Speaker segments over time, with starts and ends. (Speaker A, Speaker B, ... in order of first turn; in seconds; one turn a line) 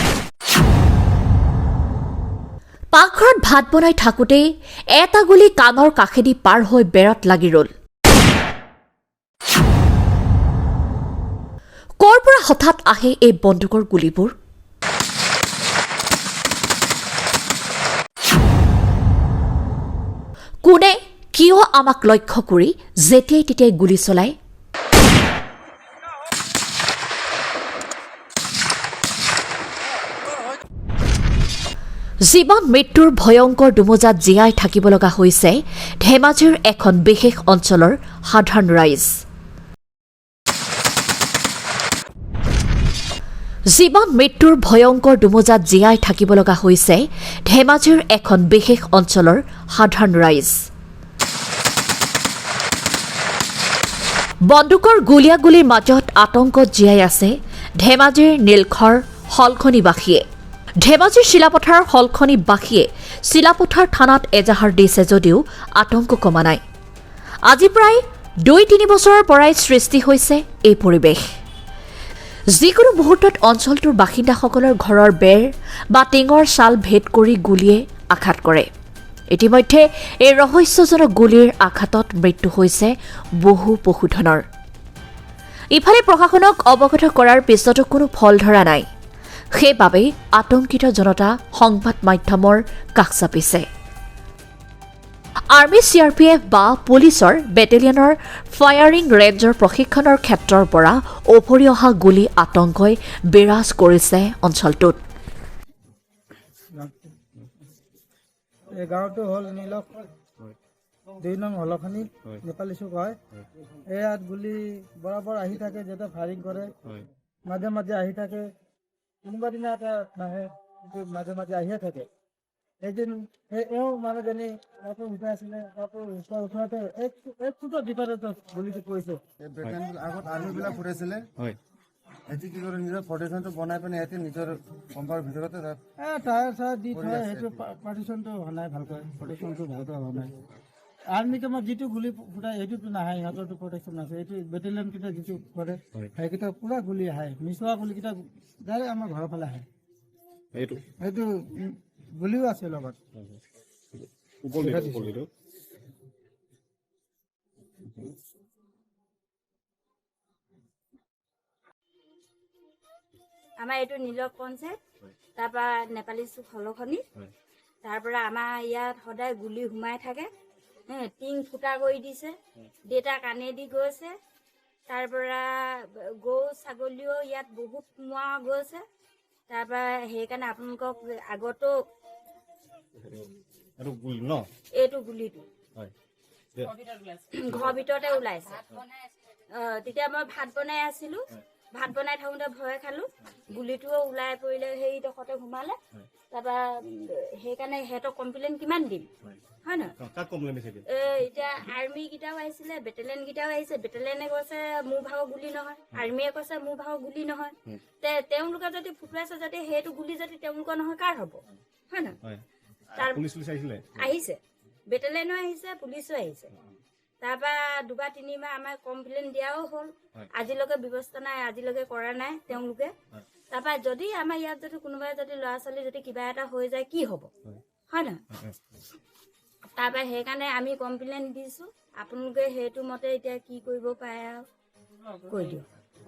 Speaker A: 2.9-7.7
Speaker A: 12.0-14.3
Speaker A: 20.6-24.4
Speaker A: 32.2-39.2
Speaker A: 43.7-50.7
Speaker A: 54.4-60.2
Speaker A: 60.8-66.6
Speaker A: 67.5-71.2
Speaker A: 72.5-78.7
Speaker A: 79.3-84.5
Speaker A: 85.7-88.9
Speaker A: 89.5-93.7
Speaker A: 95.5-105.0
Speaker B: 106.7-107.1
Speaker B: 108.7-110.0
Speaker B: 111.2-113.2
Speaker B: 113.9-116.7
Speaker B: 117.5-118.5
Speaker B: 119.2-122.1
Speaker B: 122.8-129.2
Speaker C: 129.4-131.3
Speaker C: 132.3-135.8
Speaker B: 136.0-140.4
Speaker C: 137.0-137.4
Speaker B: 141.1-149.7
Speaker D: 150.5-150.9
Speaker B: 151.0-153.0
Speaker D: 154.4-155.3
Speaker B: 154.6-155.1
Speaker E: 163.6-164.8
Speaker E: 165.4-167.0
Speaker E: 167.8-170.3
Speaker E: 170.9-172.4
Speaker E: 172.9-174.1
Speaker E: 174.9-178.8
Speaker E: 179.5-181.7
Speaker D: 183.0-183.3
Speaker D: 183.8-184.5
Speaker E: 184.8-185.5
Speaker E: 187.2-188.7
Speaker E: 189.5-195.8
Speaker E: 196.3-199.1
Speaker E: 199.7-199.9
Speaker D: 200.0-200.9
Speaker E: 200.9-211.4
Speaker E: 211.9-212.2
Speaker D: 212.9-214.1
Speaker E: 213.0-213.2
Speaker E: 213.9-214.4
Speaker E: 214.9-216.5
Speaker E: 217.2-222.9
Speaker E: 223.5-227.3
Speaker E: 227.9-228.2
Speaker E: 229.7-234.5
Speaker E: 235.3-235.7